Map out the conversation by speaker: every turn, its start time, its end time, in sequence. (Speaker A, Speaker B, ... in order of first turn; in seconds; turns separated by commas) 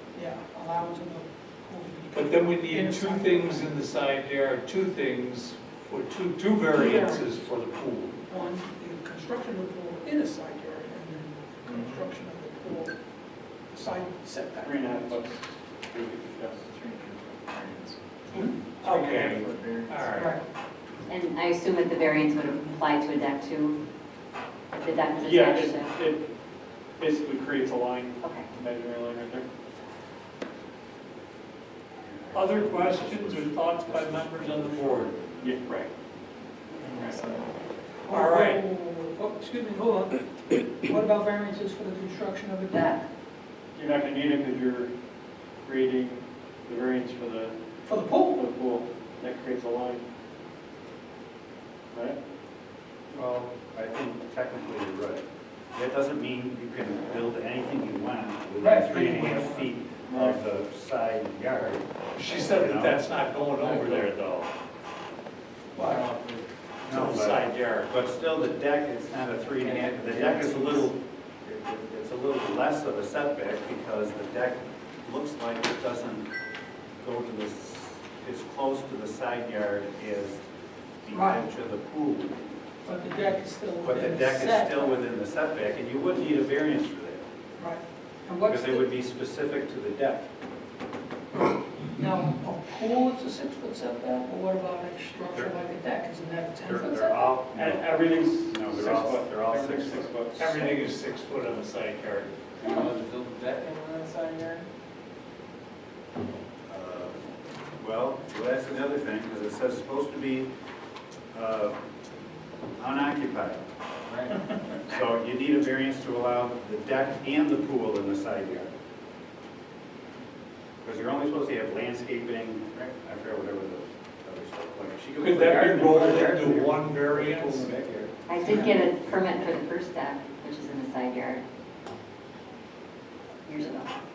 Speaker A: 0.1-3.8, Speaker B: 2.1-8.1, Speaker A: 6.7-7.4, Speaker A: 8.3-12.9, Speaker A: 13.7-15.2, Speaker C: 14.6-18.0, Speaker B: 18.8-20.3, Speaker C: 18.8-19.8, Speaker D: 19.0-19.7, Speaker A: 20.1-20.4, Speaker E: 21.1-23.8, Speaker E: 24.7-25.9, Speaker C: 25.2-26.3, Speaker C: 27.0-29.5, Speaker E: 28.2-28.5, Speaker F: 32.1-35.4, Speaker B: 32.3-35.2, Speaker C: 35.4-35.9, Speaker C: 36.9-37.3, Speaker D: 37.0-37.4, Speaker A: 38.0-43.1, Speaker B: 38.1-38.6, Speaker C: 43.8-44.9, Speaker C: 45.6-47.5, Speaker A: 47.9-48.4, Speaker C: 48.3-50.0, Speaker C: 51.9-52.2, Speaker F: 53.1-63.0, Speaker A: 58.6-59.4, Speaker C: 60.1-60.4, Speaker B: 62.1-64.5, Speaker D: 65.8-66.4, Speaker F: 66.9-76.3, Speaker B: 66.9-67.9, Speaker C: 69.7-70.7, Speaker F: 77.0-80.5, Speaker F: 81.0-82.5, Speaker A: 81.1-81.4, Speaker A: 82.8-85.0, Speaker F: 83.8-87.3, Speaker A: 87.6-88.9, Speaker F: 88.5-90.3, Speaker A: 92.0-97.3, Speaker F: 96.7-97.8, Speaker C: 97.5-100.8, Speaker F: 98.5-100.1, Speaker B: 100.4-102.3, Speaker D: 102.6-104.6, Speaker F: 106.7-107.2, Speaker F: 107.8-110.5, Speaker F: 111.3-111.8, Speaker F: 112.8-113.6, Speaker F: 114.8-118.7, Speaker F: 120.8-128.1, Speaker B: 125.2-127.8, Speaker E: 128.3-131.4, Speaker A: 128.4-128.8, Speaker E: 133.5-133.9